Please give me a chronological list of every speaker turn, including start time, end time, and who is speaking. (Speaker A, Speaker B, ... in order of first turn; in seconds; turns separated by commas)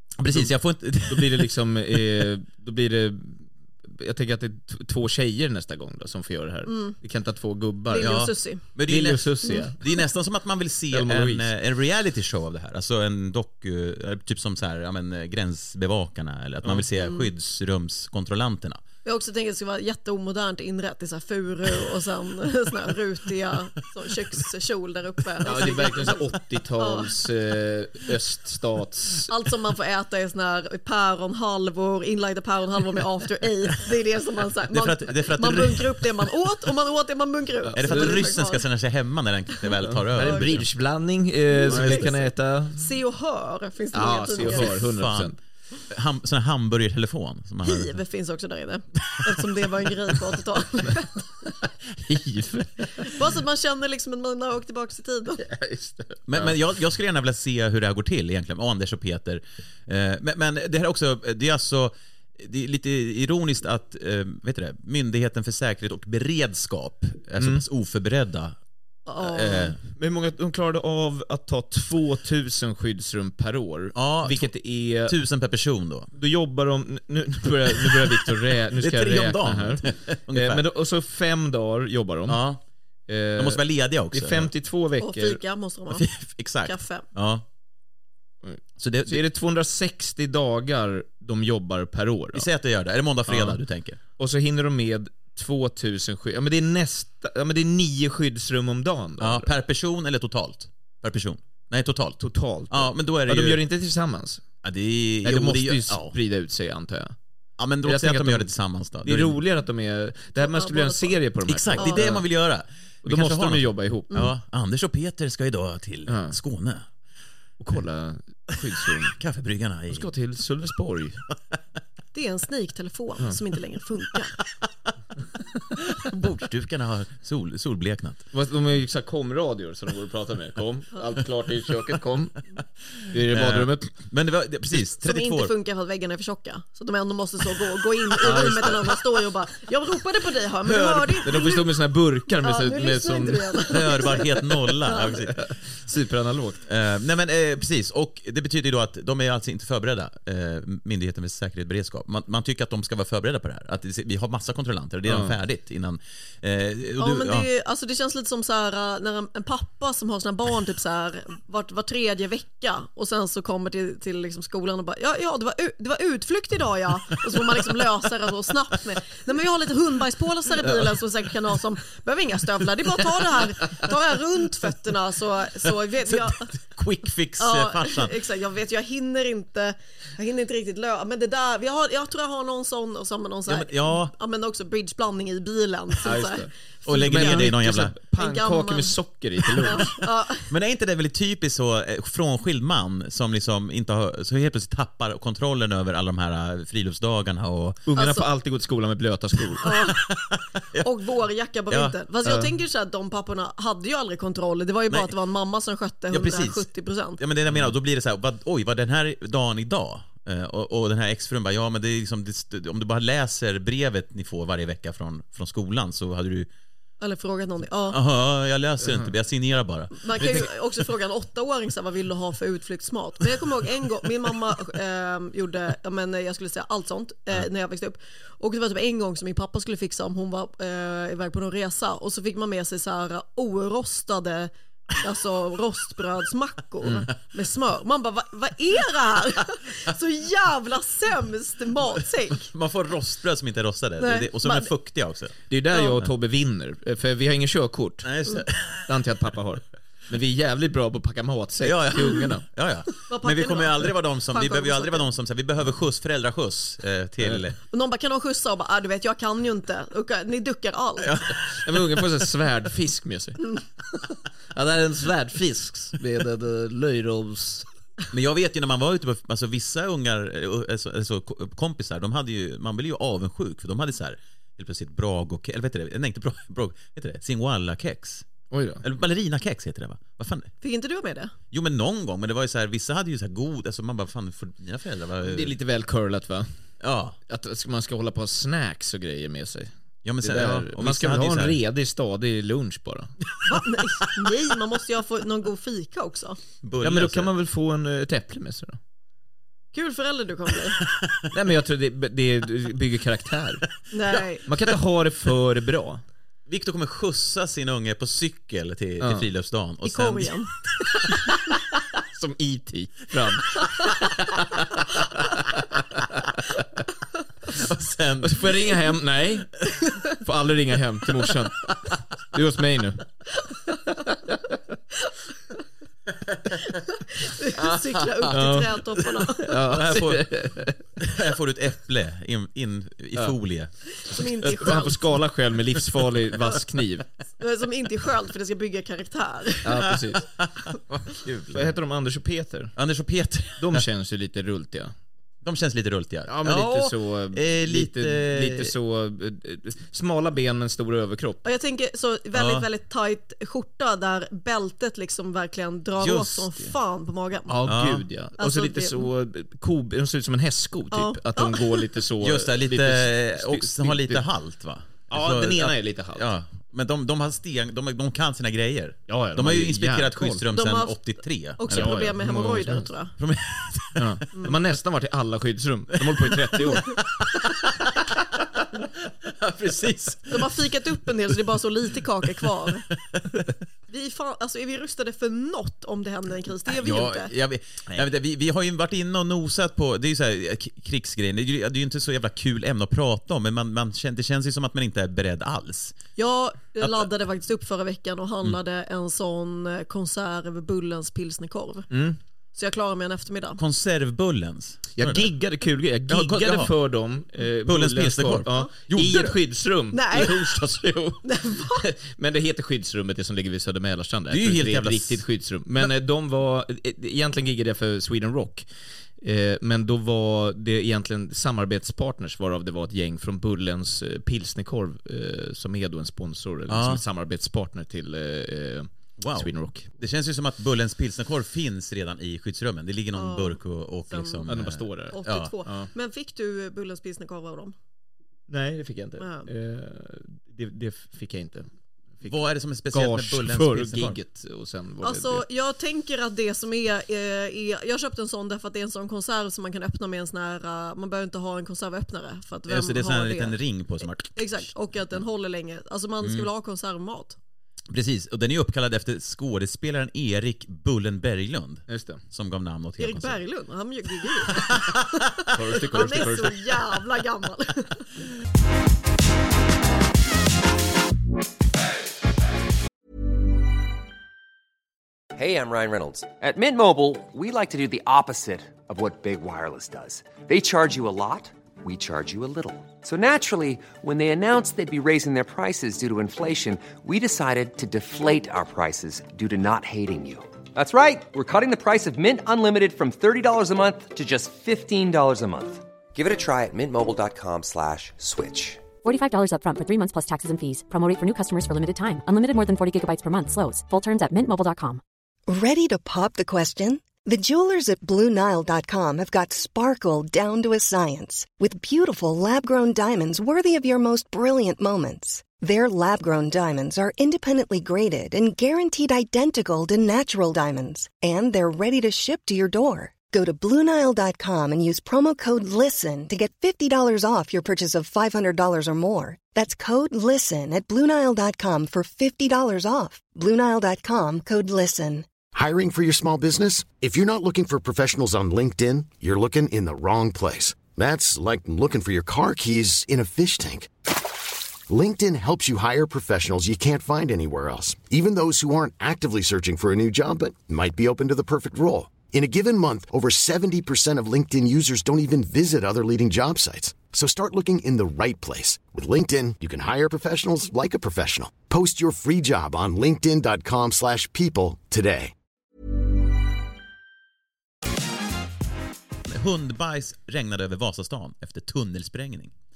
Speaker A: 0.2-2.3, Speaker B: 0.3-0.5, Speaker B: 1.1-8.2, Speaker C: 6.7-7.0, Speaker C: 7.9-8.6, Speaker A: 8.0-18.8, Speaker B: 8.8-9.8, Speaker B: 10.9-11.5, Speaker C: 17.0-17.3, Speaker C: 19.0-27.1, Speaker B: 25.4-29.3, Speaker C: 29.3-38.6, Speaker A: 34.7-36.0, Speaker B: 37.6-38.3, Speaker A: 37.7-40.6, Speaker B: 39.8-42.8, Speaker C: 40.2-40.5, Speaker C: 41.5-44.8, Speaker A: 41.7-42.1, Speaker B: 43.9-45.4, Speaker A: 44.4-45.3, Speaker A: 45.9-48.0, Speaker C: 47.6-51.3, Speaker B: 52.0-53.1, Speaker C: 52.9-55.4, Speaker B: 55.4-56.5, Speaker A: 56.3-68.6, Speaker B: 67.4-67.6, Speaker C: 69.1-69.8, Speaker A: 69.2-69.8, Speaker B: 69.8-75.2, Speaker A: 73.9-76.1, Speaker B: 76.1-82.4, Speaker A: 77.7-80.7, Speaker A: 82.3-82.6, Speaker B: 83.1-85.4, Speaker A: 83.3-84.5, Speaker C: 85.0-86.0, Speaker A: 85.9-87.4, Speaker C: 86.6-87.1, Speaker B: 88.4-92.5, Speaker A: 88.8-89.2, Speaker A: 92.3-94.0, Speaker B: 93.3-93.6, Speaker B: 94.2-99.5, Speaker A: 99.2-103.6, Speaker B: 102.2-104.4, Speaker A: 104.6-106.2, Speaker B: 105.2-107.2, Speaker A: 107.6-109.3, Speaker B: 107.8-112.2, Speaker C: 110.4-111.2, Speaker A: 111.5-116.9, Speaker C: 111.8-112.2, Speaker B: 113.0-114.1, Speaker B: 116.1-116.4, Speaker B: 117.6-119.2, Speaker A: 118.9-120.1, Speaker B: 119.9-121.2, Speaker C: 122.1-124.3, Speaker A: 125.8-128.3, Speaker B: 128.3-132.4, Speaker B: 133.1-133.9, Speaker A: 133.3-135.5, Speaker C: 135.0-141.7, Speaker B: 138.2-138.9, Speaker A: 140.6-141.4, Speaker B: 141.2-143.7, Speaker C: 142.3-145.2, Speaker A: 143.7-145.5, Speaker B: 145.3-146.6, Speaker A: 146.6-157.5, Speaker B: 155.1-155.4, Speaker C: 157.0-176.5, Speaker A: 176.0-178.2, Speaker C: 177.4-187.6, Speaker A: 183.5-184.1, Speaker B: 186.0-190.0, Speaker A: 186.8-188.0, Speaker C: 188.1-189.0, Speaker C: 189.6-190.5, Speaker A: 190.4-197.8, Speaker B: 197.8-199.7, Speaker C: 197.9-198.3, Speaker C: 199.6-200.1, Speaker A: 199.7-200.9, Speaker C: 200.8-207.2, Speaker A: 201.7-201.9, Speaker B: 202.2-202.5, Speaker A: 204.9-205.2, Speaker A: 206.1-216.5, Speaker C: 217.0-218.0, Speaker A: 217.9-220.5, Speaker B: 218.8-219.1, Speaker C: 220.0-242.5, Speaker B: 236.8-237.1, Speaker A: 242.4-245.3, Speaker C: 244.0-244.7, Speaker B: 245.5-248.1, Speaker C: 245.7-246.0, Speaker A: 248.0-249.0, Speaker B: 248.9-252.4, Speaker A: 251.6-257.6, Speaker C: 253.1-255.1, Speaker C: 257.7-261.1, Speaker A: 261.0-261.4, Speaker B: 261.6-263.4, Speaker B: 264.5-267.7, Speaker A: 268.1-278.3, Speaker B: 278.5-278.8, Speaker A: 278.8-280.5, Speaker C: 280.6-281.3, Speaker A: 281.5-285.6, Speaker B: 285.2-286.5, Speaker A: 286.8-287.2, Speaker B: 287.3-289.7, Speaker A: 290.0-291.6, Speaker B: 290.2-293.1, Speaker C: 293.4-296.4, Speaker A: 296.6-297.3, Speaker B: 296.8-298.8, Speaker C: 299.7-300.8, Speaker B: 301.3-303.7, Speaker C: 303.9-304.4, Speaker B: 304.4-306.0, Speaker A: 306.5-310.4, Speaker B: 309.0-309.3, Speaker C: 309.8-311.1, Speaker B: 312.1-313.6, Speaker B: 314.5-316.4, Speaker A: 317.5-318.7, Speaker B: 318.2-319.5, Speaker B: 320.2-321.7, Speaker A: 321.6-321.9, Speaker B: 322.3-323.0, Speaker B: 323.9-324.5, Speaker A: 326.2-326.5, Speaker C: 326.9-329.6, Speaker A: 327.6-328.4, Speaker B: 328.3-328.7, Speaker A: 329.0-330.3, Speaker B: 329.4-330.8, Speaker A: 331.0-334.6, Speaker C: 334.0-335.2, Speaker B: 334.5-337.1, Speaker C: 337.4-340.1, Speaker B: 339.6-340.2, Speaker A: 340.1-341.7, Speaker B: 341.5-342.7, Speaker A: 342.8-343.8, Speaker B: 343.6-344.9, Speaker A: 345.4-348.7, Speaker B: 346.3-351.4, Speaker C: 351.4-357.6, Speaker A: 352.3-352.7, Speaker A: 356.0-356.7, Speaker B: 357.5-364.2, Speaker A: 357.7-358.1, Speaker C: 358.4-359.1, Speaker C: 360.9-361.8, Speaker A: 362.2-372.1, Speaker B: 365.1-366.3, Speaker B: 369.1-370.4, Speaker C: 370.5-373.1, Speaker B: 371.7-372.9, Speaker A: 373.2-374.3, Speaker B: 373.9-376.9, Speaker A: 376.0-378.1, Speaker C: 376.6-376.9, Speaker A: 379.2-380.6, Speaker C: 380.3-382.9, Speaker C: 383.9-387.3, Speaker A: 386.7-396.0, Speaker C: 396.1-401.9, Speaker A: 396.8-397.1, Speaker B: 401.9-402.2, Speaker C: 402.5-403.6, Speaker A: 403.6-405.3, Speaker B: 404.9-418.6, Speaker A: 406.1-406.7, Speaker A: 407.6-409.4, Speaker C: 409.9-410.4, Speaker C: 411.2-411.9, Speaker A: 414.3-415.2, Speaker B: 419.2-429.9, Speaker A: 426.7-427.0, Speaker A: 429.2-435.5, Speaker C: 433.1-434.6, Speaker B: 434.4-435.9, Speaker C: 435.1-437.7, Speaker B: 438.5-441.7, Speaker C: 439.2-439.5, Speaker A: 442.2-444.2, Speaker B: 442.9-445.4, Speaker C: 445.0-453.6, Speaker A: 452.7-455.2, Speaker C: 454.3-457.4, Speaker A: 456.2-456.5, Speaker A: 457.9-463.4, Speaker B: 461.9-462.2, Speaker C: 463.0-465.1, Speaker A: 464.5-464.9, Speaker B: 465.5-466.7, Speaker C: 465.9-468.0, Speaker A: 465.9-466.4, Speaker D: 475.3-498.8, Speaker E: 499.0-505.0, Speaker F: 505.5-535.3, Speaker G: 535.5-543.9, Speaker G: 544.9-565.3, Speaker A: 569.2-572.5